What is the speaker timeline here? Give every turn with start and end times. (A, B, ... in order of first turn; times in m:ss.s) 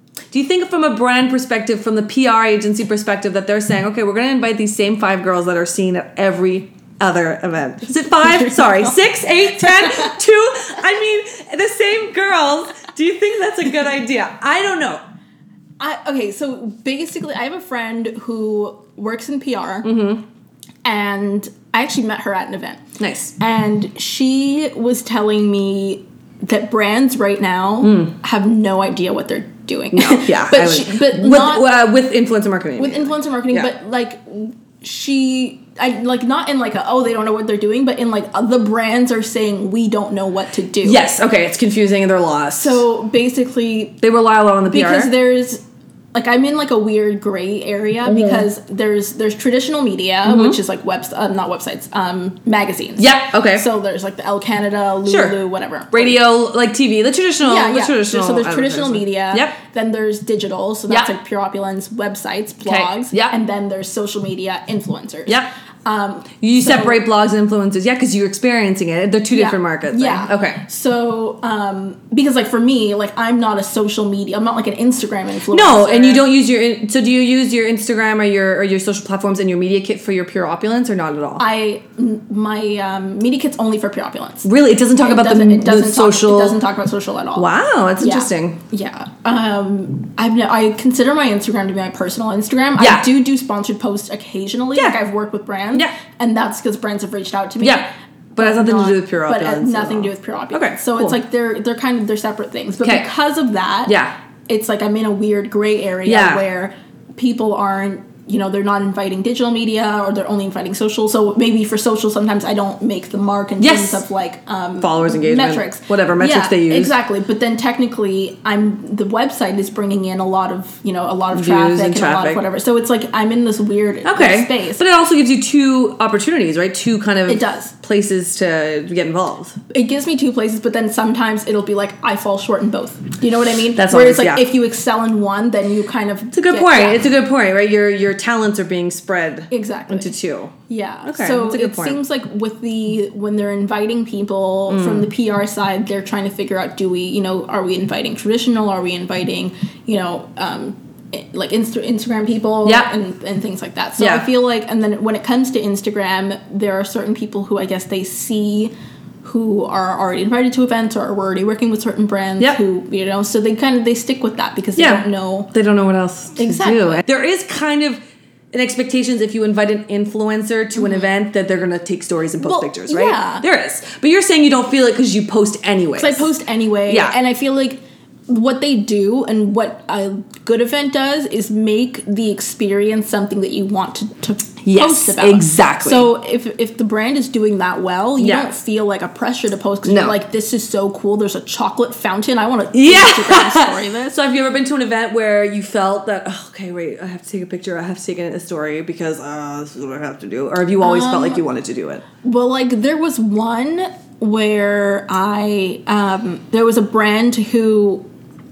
0:00.3-0:15.0 A
0:08.1-0:09.0 B
0:09.6-0:10.1 B
0:15.8-0:19.9 B
0:19.8-0:20.2 A
0:20.8-0:22.8 B
0:23.0-0:23.3 A
0:23.4-0:31.7 B
0:27.8-0:28.1 A
0:29.9-0:33.7 A
0:32.8-0:41.0 B
0:40.8-0:42.8 A
0:42.6-0:44.0 B
0:44.0-0:45.1 A
0:44.7-0:45.6 B
0:46.1-0:56.2 B
0:48.1-0:48.5 A
0:50.2-0:50.6 A
0:53.0-0:53.7 A
0:55.1-0:55.4 A
0:55.9-0:59.6 A
0:57.4-1:07.0 B
1:02.6-1:03.3 A
1:06.4-1:10.6 A
1:09.3-1:16.3 B
1:15.5-1:21.4 A
1:21.4-1:24.5 B
1:24.4-1:26.6 A
1:25.0-1:44.0 B
1:27.4-1:28.6 A
1:32.8-1:33.1 A
1:37.6-1:41.2 A
1:42.8-1:43.1 A
1:43.9-1:44.1 A
1:44.5-2:04.8 B
1:46.0-1:46.4 A
1:53.6-1:54.0 A
1:54.8-1:56.9 A
2:01.3-2:02.4 A
2:04.0-2:09.6 A
2:07.3-2:07.7 B
2:09.7-2:17.1 B
2:13.7-2:14.5 A
2:16.3-2:22.0 A
2:19.5-2:20.2 B
2:20.7-2:38.7 B
2:24.7-2:25.1 A
2:32.6-2:32.9 A
2:34.0-2:34.3 A
2:39.2-2:45.5 B
2:44.8-2:48.0 A
2:46.4-2:47.0 B
2:48.5-2:56.3 A
2:50.8-2:51.1 B
2:52.4-2:53.4 B
2:56.0-3:14.2 B
2:56.9-2:57.2 A
3:04.6-3:06.1 A
3:08.2-3:08.5 A
3:09.8-3:10.2 A
3:12.7-3:22.1 A
3:20.8-3:21.4 B
3:22.2-3:28.0 B